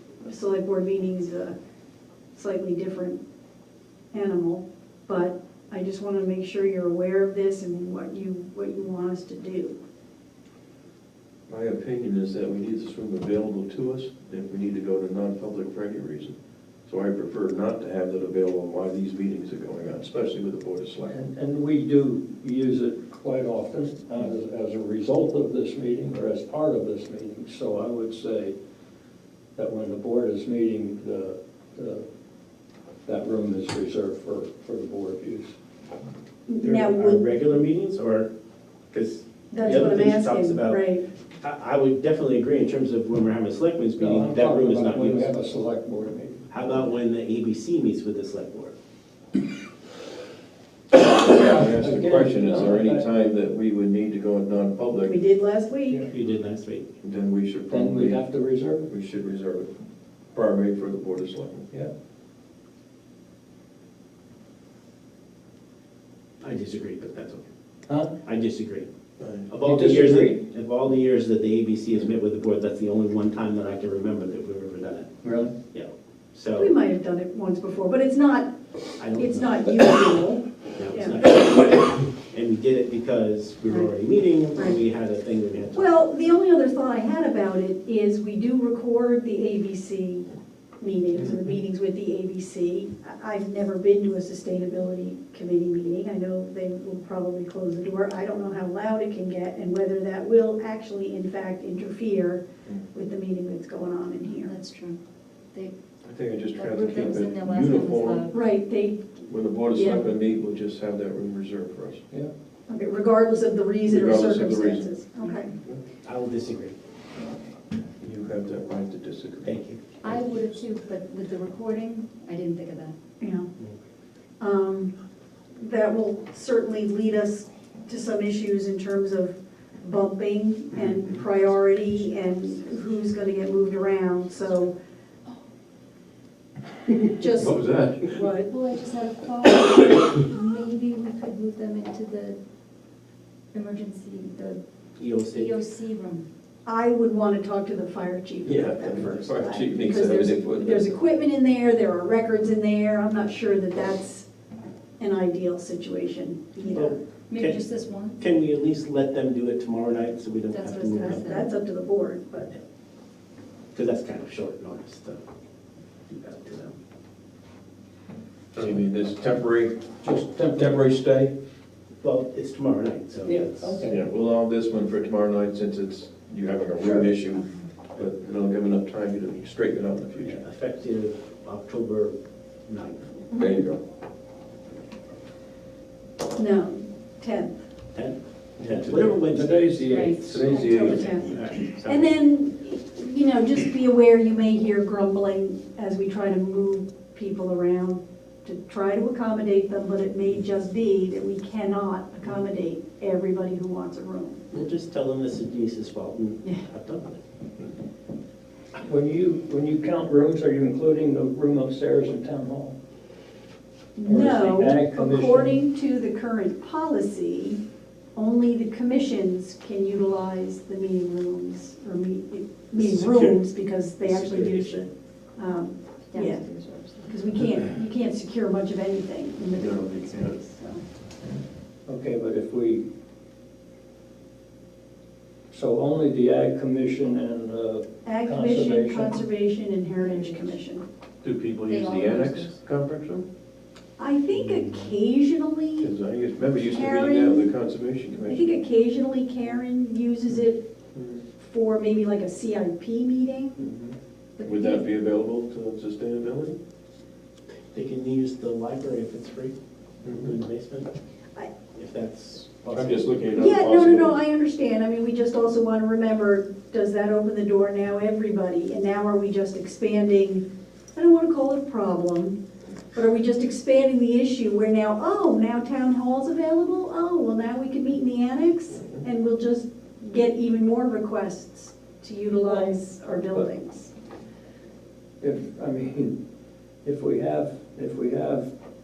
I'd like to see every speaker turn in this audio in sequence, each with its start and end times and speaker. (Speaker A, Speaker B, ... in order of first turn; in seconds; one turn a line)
Speaker A: 0.2-1.5
Speaker A: 2.3-3.2
Speaker A: 4.1-9.8
Speaker B: 11.5-16.4
Speaker B: 16.9-21.1
Speaker C: 21.1-28.5
Speaker C: 29.6-32.0
Speaker C: 33.0-35.5
Speaker A: 36.5-37.2
Speaker D: 36.6-38.3
Speaker D: 38.9-40.8
Speaker A: 39.5-41.0
Speaker C: 39.6-40.0
Speaker D: 41.4-45.3
Speaker C: 44.0-46.5
Speaker D: 46.5-48.7
Speaker B: 50.9-55.2
Speaker C: 51.4-53.1
Speaker A: 55.0-56.0
Speaker D: 56.0-56.9
Speaker B: 57.0-58.2
Speaker C: 57.7-58.9
Speaker B: 58.9-59.7
Speaker B: 60.3-61.6
Speaker D: 66.4-67.4
Speaker D: 68.2-68.9
Speaker B: 69.2-69.5
Speaker D: 69.5-75.1
Speaker C: 69.6-70.4
Speaker C: 75.2-75.5
Speaker D: 75.7-76.7
Speaker A: 76.5-78.5
Speaker D: 79.0-79.7
Speaker A: 79.2-81.3
Speaker D: 80.8-85.9
Speaker A: 85.7-90.3
Speaker A: 90.8-104.5
Speaker B: 91.2-91.4
Speaker E: 104.4-105.0
Speaker B: 106.0-108.3
Speaker E: 106.5-108.4
Speaker A: 108.3-110.0
Speaker B: 109.3-112.0
Speaker A: 112.7-115.5
Speaker B: 113.8-114.9
Speaker D: 116.0-116.7
Speaker B: 118.0-120.2
Speaker D: 119.4-119.8
Speaker E: 120.0-122.9
Speaker A: 123.2-123.5
Speaker A: 124.4-124.9
Speaker A: 125.6-134.7
Speaker B: 130.7-131.2
Speaker A: 137.1-138.5
Speaker B: 137.3-138.3
Speaker E: 138.5-142.4
Speaker E: 143.5-144.6
Speaker D: 145.0-145.6
Speaker E: 145.3-146.3
Speaker A: 146.7-154.3
Speaker B: 148.4-150.9
Speaker A: 155.0-157.0
Speaker D: 156.6-157.6
Speaker E: 157.3-158.2
Speaker D: 158.2-161.3
Speaker E: 160.5-161.4
Speaker A: 161.0-162.5
Speaker D: 163.7-165.2
Speaker D: 166.1-166.7
Speaker B: 168.6-169.8
Speaker C: 170.0-170.8
Speaker B: 170.5-171.3
Speaker D: 172.0-173.7
Speaker C: 173.2-174.0
Speaker B: 173.8-180.4
Speaker D: 180.2-182.1
Speaker D: 182.7-183.2
Speaker B: 183.3-183.8
Speaker A: 186.3-187.6
Speaker D: 187.9-192.1
Speaker C: 189.2-190.8
Speaker E: 189.9-190.2
Speaker B: 190.2-191.2
Speaker A: 190.5-204.4
Speaker D: 204.5-207.2
Speaker C: 208.8-212.7
Speaker A: 213.9-217.6
Speaker C: 214.1-215.6
Speaker A: 218.2-226.4
Speaker D: 222.8-223.4
Speaker D: 224.0-224.8
Speaker E: 226.1-227.1
Speaker A: 227.0-230.8
Speaker B: 229.6-230.4
Speaker C: 231.9-232.9
Speaker C: 235.5-239.2
Speaker A: 238.0-240.8
Speaker E: 240.0-240.5
Speaker B: 241.2-243.2
Speaker E: 241.7-242.5
Speaker A: 244.0-245.9
Speaker B: 245.8-248.5
Speaker A: 246.5-247.5
Speaker A: 248.2-250.7
Speaker B: 250.9-251.2
Speaker A: 251.4-253.7
Speaker B: 253.6-256.6
Speaker E: 254.4-254.8
Speaker D: 257.7-259.5
Speaker B: 260.0-260.4
Speaker D: 260.1-260.9
Speaker D: 261.7-263.1
Speaker B: 262.7-264.2
Speaker A: 263.3-272.4
Speaker A: 272.9-283.9
Speaker C: 282.4-283.5
Speaker C: 285.2-286.1
Speaker C: 286.8-288.5